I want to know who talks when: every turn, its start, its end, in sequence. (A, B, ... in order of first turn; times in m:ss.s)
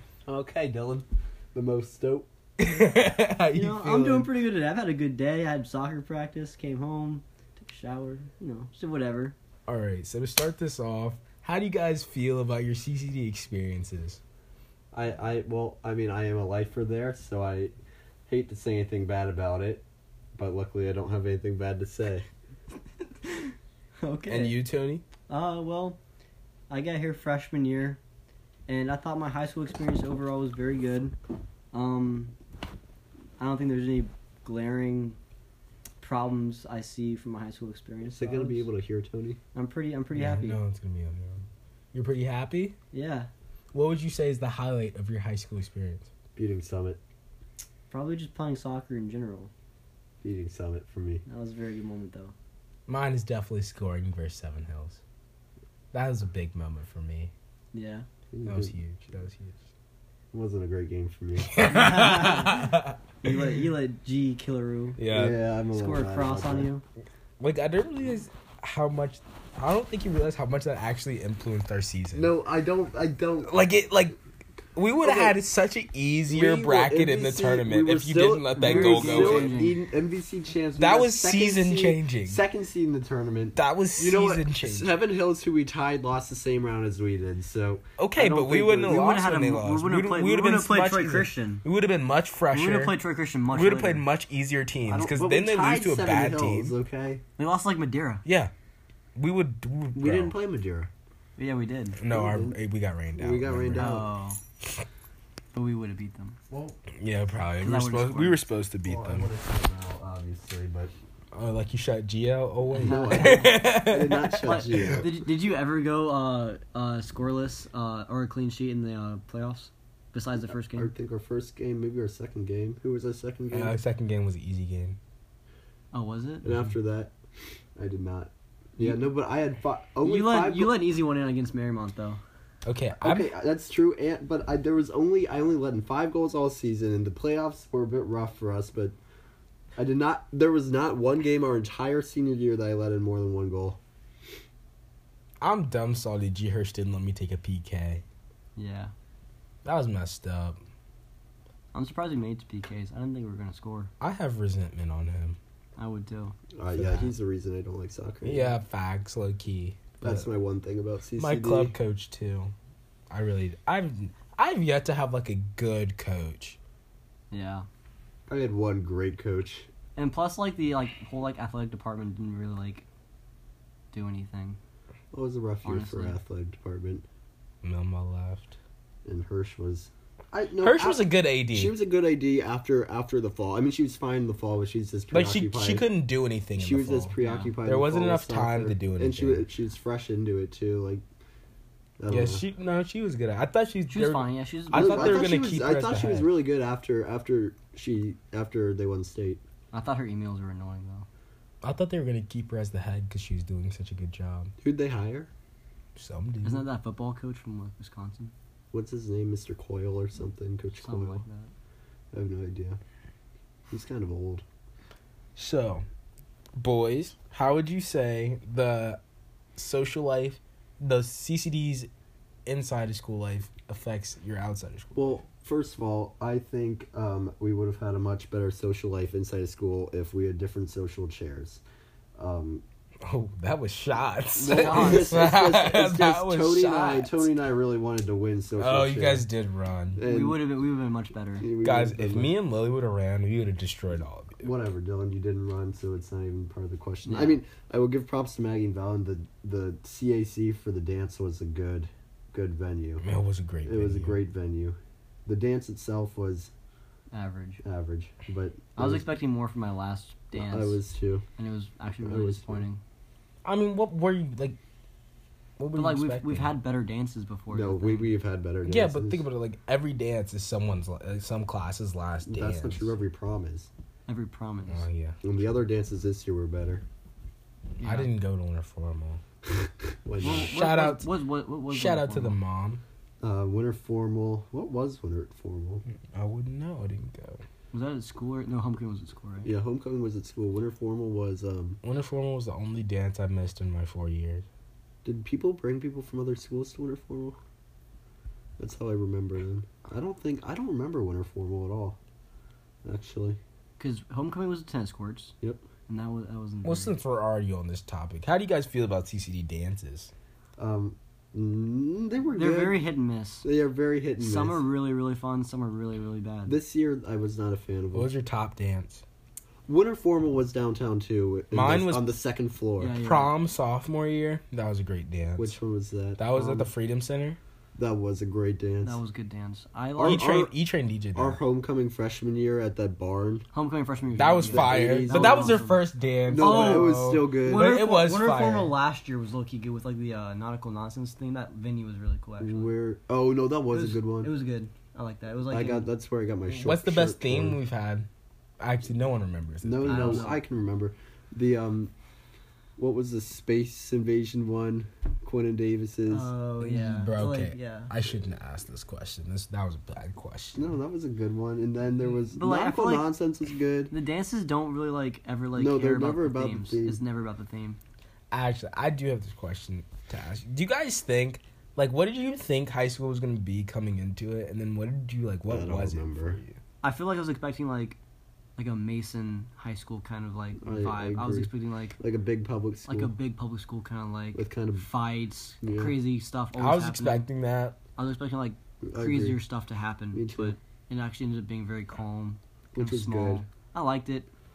0:00.3-0:02.3 A
0:02.6-0:04.3 B
0:03.5-0:09.3 C
0:09.7-0:14.2 B
0:14.9-0:17.7 A
0:18.3-0:22.3 A
0:23.2-0:24.6 C
0:24.3-0:25.0 B
0:25.3-0:26.0 C
0:26.7-0:28.0 C
0:28.7-0:31.1 C
0:31.7-0:32.3 C
0:33.4-0:35.2 C
0:36.0-0:38.6 C
0:38.1-0:39.4 A
0:39.5-0:40.6 C
0:40.1-0:42.7 B
0:42.9-0:43.3 C
0:43.7-0:46.1 B
0:46.4-0:47.0 A
0:47.9-0:49.5 C
0:50.2-0:51.2 A
0:51.2-0:52.3 C
0:52.9-0:55.0 B
0:55.9-0:57.3 B
0:57.7-0:58.0 C
0:58.3-0:58.7 A
0:58.4-0:59.7 B
1:00.3-1:02.3 A
1:01.4-1:03.5 B
1:01.6-1:05.0 C
1:05.0-1:05.4 B
1:05.1-1:06.7 A
1:05.7-1:06.8 C
1:07.4-1:12.3 B
1:12.1-1:13.5 A
1:13.4-1:14.2 B
1:14.7-1:19.6 B
1:15.0-1:15.4 A
1:16.3-1:29.1 A
1:18.5-1:19.8 C
1:20.8-1:22.4 B
1:23.6-1:24.9 B
1:28.0-1:33.0 B
1:28.4-1:31.6 C
1:32.5-1:34.0 C
1:33.5-1:36.7 B
1:34.9-1:37.2 A
1:37.4-1:38.2 C
1:38.2-1:38.5 B
1:39.2-1:40.4 B
1:39.9-1:40.9 A
1:41.4-1:42.0 C
1:42.0-1:43.9 B
1:42.1-1:42.6 A
1:43.2-1:44.1 A
1:43.8-1:44.4 C
1:45.5-1:46.4 C
1:46.5-1:46.8 A
1:47.0-1:49.3 B
1:47.6-1:48.4 C
1:48.8-1:50.9 A
1:51.3-1:55.0 B
1:52.7-1:53.6 C
1:52.8-1:55.1 A
1:54.4-2:00.9 C
2:00.7-2:03.7 A
2:03.5-2:05.0 B
2:05.9-2:06.5 C
2:06.4-2:07.1 A
2:07.8-2:10.8 A
2:10.0-2:12.2 C
2:12.6-2:13.3 B
2:13.0-2:19.0 A
2:19.8-2:23.8 A
2:25.4-2:28.0 B
2:28.6-2:28.9 C
2:29.6-2:30.6 B
2:31.7-2:33.9 C
2:34.0-2:35.4 B
2:35.8-2:36.4 C
2:36.6-2:38.5 A
2:36.7-2:37.1 B
2:38.2-2:40.3 B
2:40.0-2:41.7 A
2:41.2-2:42.5 B
2:43.1-2:46.6 B
2:47.3-2:47.6 C
2:48.3-2:49.7 A
2:50.0-2:52.8 C
2:53.9-2:54.6 C
2:55.1-2:57.0 A
2:55.6-2:56.2 C
2:57.6-2:58.6 B
2:59.0-3:05.8 A
3:00.6-3:01.8 B
3:05.1-3:07.1 B
3:06.6-3:11.0 A
3:07.2-3:07.6 C
3:07.6-3:09.5 B
3:12.0-3:12.4 A
3:12.1-3:16.3 B
3:13.9-3:15.2 C
3:14.7-3:19.4 A
3:19.7-3:21.1 C
3:21.6-3:24.5 B
3:24.6-3:25.3 A
3:26.0-3:26.6 B
3:26.4-3:28.3 C
3:28.7-3:31.2 A
3:30.8-3:31.5 C
3:32.1-3:32.8 A
3:33.7-3:34.4 A
3:35.4-3:35.8 B
3:36.6-3:39.0 B
3:39.6-3:41.9 B
3:42.5-3:45.2 B
3:44.9-3:51.6 A
3:52.2-3:52.6 A
3:53.0-3:57.3 B
3:54.4-3:59.2 A
3:54.4-3:55.2 C
3:58.6-4:00.0 B
4:00.0-4:00.4 A
4:00.0-4:01.5 C
4:01.4-4:02.3 A
4:01.6-4:04.4 B
4:04.4-4:13.0 A
4:07.0-4:07.4 C
4:13.0-4:14.2 B
4:13.7-4:16.5 A
4:17.1-4:17.6 C
4:17.6-4:19.1 A
4:18.8-4:20.8 C
4:20.3-4:21.2 A
4:21.4-4:22.8 C
4:22.0-4:22.6 A
4:23.4-4:24.6 B
4:25.6-4:26.5 B
4:25.8-4:28.1 C
4:27.5-4:29.2 A
4:28.6-4:32.9 B
4:32.2-4:33.7 A
4:34.1-4:34.8 C
4:34.7-4:35.2 B
4:35.2-4:36.8 A
4:37.8-4:39.2 B
4:37.8-4:38.1 C
4:39.5-4:40.5 A
4:40.2-4:42.4 C
4:40.5-4:41.1 B
4:41.7-4:42.8 B
4:43.2-4:45.8 A
4:46.1-4:47.4 B
4:47.7-4:49.5 C
4:49.4-4:51.8 A
4:51.8-4:54.4 B
4:55.0-4:57.4 A
4:58.6-5:02.0 A
5:02.8-5:03.4 A
5:03.8-5:05.3 C
5:05.9-5:06.9 C
5:06.6-5:10.1 B
5:10.6-5:12.8 A
5:12.4-5:13.4 C
5:13.4-5:14.6 A
5:14.2-5:16.6 C
5:16.5-5:18.1 A
5:17.9-5:19.0 B
5:19.7-5:23.0 A
5:21.5-5:22.0 B
5:22.8-5:23.3 C
5:23.0-5:25.6 B
5:25.4-5:26.7 A
5:26.2-5:27.4 B
5:27.8-5:29.0 A
5:28.8-5:30.3 C
5:30.0-5:30.5 A
5:30.0-5:31.4 B
5:31.1-5:33.4 A
5:33.5-5:35.8 C
5:34.2-5:38.7 B
5:34.5-5:35.6 A
5:36.3-5:37.7 A
5:36.3-5:42.7 C
5:42.4-5:44.3 A
5:43.7-5:45.9 C
5:45.5-5:47.6 A
5:46.5-5:48.1 B
5:48.6-5:50.3 B
5:49.6-5:51.9 A
5:49.8-5:50.4 C
5:52.8-5:56.3 A
5:56.1-5:57.9 C
5:56.6-6:00.6 B
6:00.5-6:03.9 A
6:02.3-6:03.1 C
6:03.9-6:07.8 C
6:05.5-6:07.0 A
6:08.3-6:16.6 B
6:15.5-6:16.4 A
6:16.8-6:18.0 C
6:18.6-6:22.0 C
6:20.6-6:23.1 A
6:22.9-6:27.3 C
6:24.3-6:24.8 A
6:25.6-6:26.0 A
6:26.6-6:27.8 B
6:28.0-6:34.3 C
6:28.8-6:29.4 A
6:30.1-6:30.6 A
6:32.7-6:33.4 A